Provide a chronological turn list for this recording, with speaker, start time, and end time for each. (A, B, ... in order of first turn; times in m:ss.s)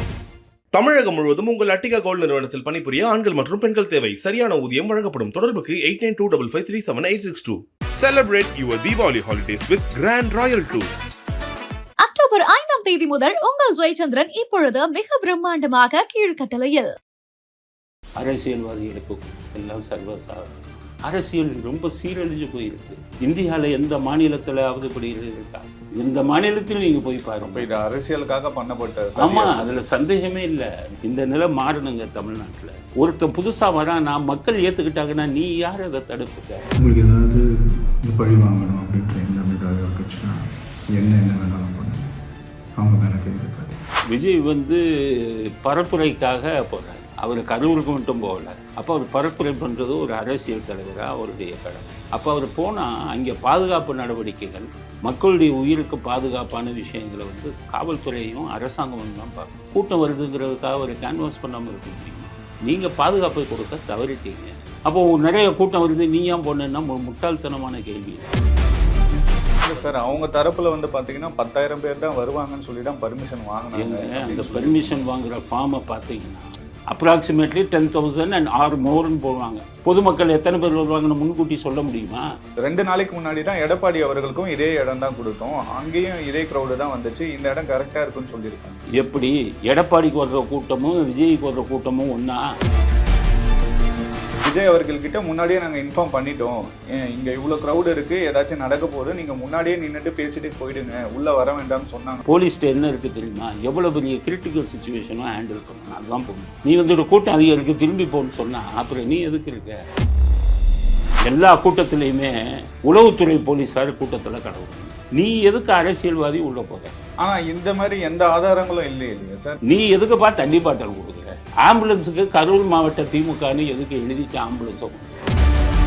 0:00.7-0:11.0 A
0:12.0-0:16.9 B
0:18.2-0:27.7 C
0:27.4-0:29.7 D
0:29.2-0:36.6 C
0:36.8-0:40.4 E
0:40.9-0:42.0 E
0:42.8-0:43.8 E
0:44.1-1:08.3 C
1:09.6-1:15.0 D
1:13.7-1:22.2 C
1:22.6-1:28.8 D
1:29.0-1:32.4 C
1:34.4-1:42.2 D
1:42.2-1:49.8 C
1:51.3-1:57.0 C
1:57.2-1:59.6 D
1:59.6-2:05.2 C